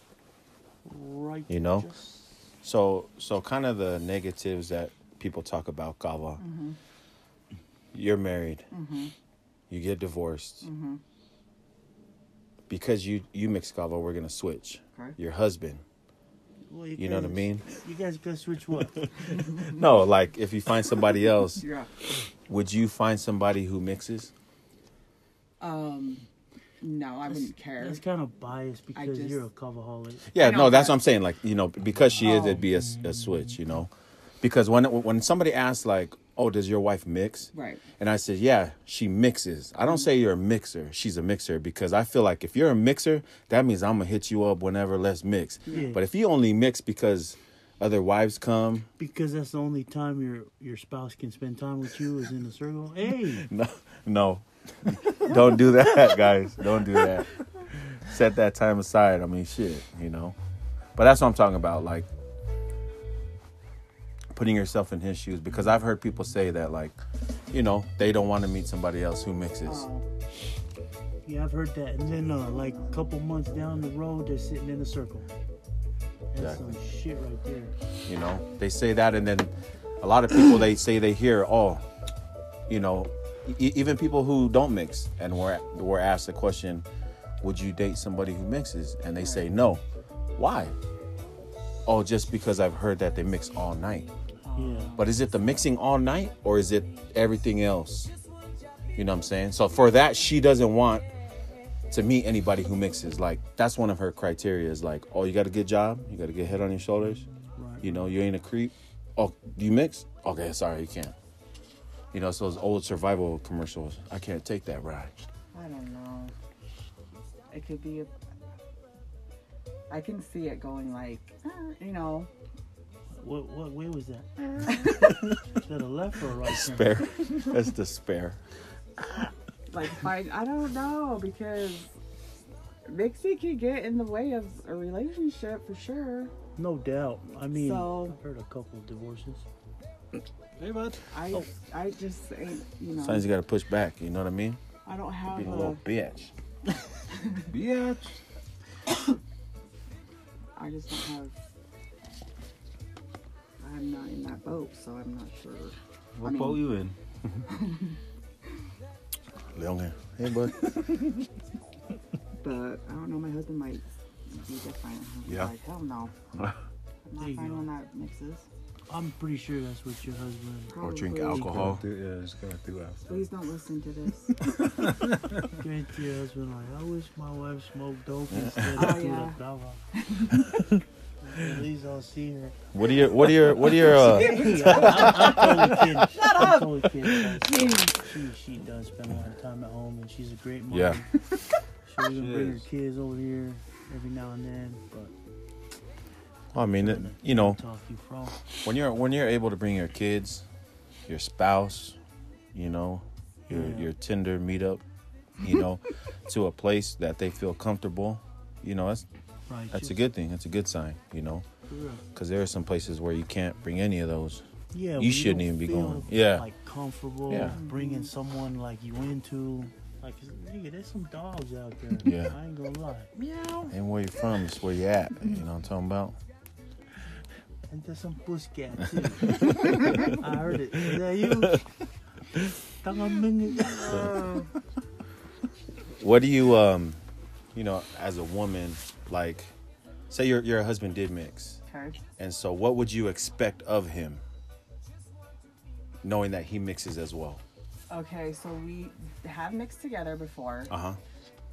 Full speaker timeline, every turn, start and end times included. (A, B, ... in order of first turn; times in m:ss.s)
0:00.8-0:02.4 A
0:01.5-0:01.9 B
0:02.6-0:06.4 B
0:06.4-0:06.8 C
0:07.9-0:08.6 B
0:08.7-0:09.1 C
0:09.7-0:10.7 B
0:10.6-0:11.0 C
0:12.7-0:15.8 B
0:16.7-0:19.1 A
0:17.0-0:17.6 B
0:19.3-0:19.8 C
0:19.6-0:21.6 B
0:21.6-0:21.9 C
0:22.5-0:24.3 B
0:25.6-0:26.2 C
0:26.8-0:28.0 C
0:27.3-0:30.2 A
0:28.9-0:29.4 C
0:30.3-0:48.9 B
0:30.4-0:31.0 C
0:32.2-0:32.6 C
0:37.5-0:37.8 C
0:45.7-0:46.0 C
0:45.7-0:46.0 A
0:49.0-0:53.5 A
0:53.3-0:57.3 B
0:58.0-1:00.4 B
1:01.0-1:02.1 B
1:04.3-1:07.0 B
1:07.5-1:09.9 B
1:09.6-1:10.0 C
1:11.2-1:15.3 A
1:16.3-1:17.7 A
1:16.4-1:16.7 B
1:18.0-1:21.8 B
1:22.7-1:26.8 B
1:27.4-1:29.8 B
1:29.2-1:29.5 C
1:30.4-1:30.8 B
1:31.8-1:34.1 B
1:34.4-1:35.0 C
1:34.6-1:35.0 A
1:35.0-1:38.1 B
1:39.0-1:41.1 B
1:41.9-1:47.2 B
1:47.5-1:48.1 A
1:47.8-1:51.1 B
1:52.1-1:55.1 B
1:55.5-1:56.3 C
1:57.5-1:58.1 C
1:59.9-2:02.3 C
2:03.2-2:07.1 A
2:06.4-2:08.4 B
2:09.7-2:11.9 C
2:12.8-2:16.3 C
2:16.6-2:19.4 A
2:17.5-2:18.2 C
2:20.6-2:21.0 D
2:21.1-2:23.3 C
2:23.0-2:24.6 B
2:24.8-2:25.8 C
2:25.3-2:26.3 B
2:27.1-2:27.4 C
2:27.5-2:28.2 D
2:30.6-2:31.3 C
2:33.6-2:36.7 C
2:36.2-2:37.0 D
2:37.5-2:38.0 C
2:39.5-2:41.0 B
2:42.4-2:46.1 C
2:45.2-2:45.5 B
2:47.0-2:48.5 C
2:47.2-2:47.7 A
2:48.9-2:50.7 A
2:50.7-2:51.5 C
2:50.8-2:51.8 B
2:51.4-2:53.2 D
2:53.1-2:54.5 C
2:55.6-2:59.8 A
2:58.3-2:58.8 B
2:58.7-2:59.4 C
3:00.0-3:00.4 C
3:01.2-3:02.6 A
3:02.7-3:05.8 B
3:03.6-3:05.5 C
3:04.0-3:11.1 A
3:06.1-3:08.0 C
3:10.7-3:11.0 B
3:11.8-3:15.1 A
3:12.1-3:12.6 D
3:16.5-3:17.6 B
3:16.8-3:18.4 A
3:18.5-3:20.4 B
3:21.1-3:22.0 B
3:22.5-3:24.8 B
3:23.5-3:23.9 A
3:25.4-3:29.0 B
3:29.5-3:30.1 A
3:29.7-3:31.4 B
3:31.7-3:32.0 A
3:32.1-3:34.4 B
3:34.7-3:43.1 A
3:35.0-3:36.5 B
3:37.3-3:37.6 B
3:37.4-3:38.1 C
3:42.0-3:42.4 B
3:43.2-3:43.5 C
3:43.7-3:46.2 B
3:47.7-3:51.6 A
3:52.8-3:54.1 A
3:53.7-3:54.5 C
3:56.0-3:57.0 B
3:57.5-3:59.5 B
4:00.1-4:01.6 B
4:01.7-4:02.0 C
4:02.2-4:04.2 B
4:06.0-4:07.4 B
4:07.9-4:10.7 C
4:10.7-4:11.0 B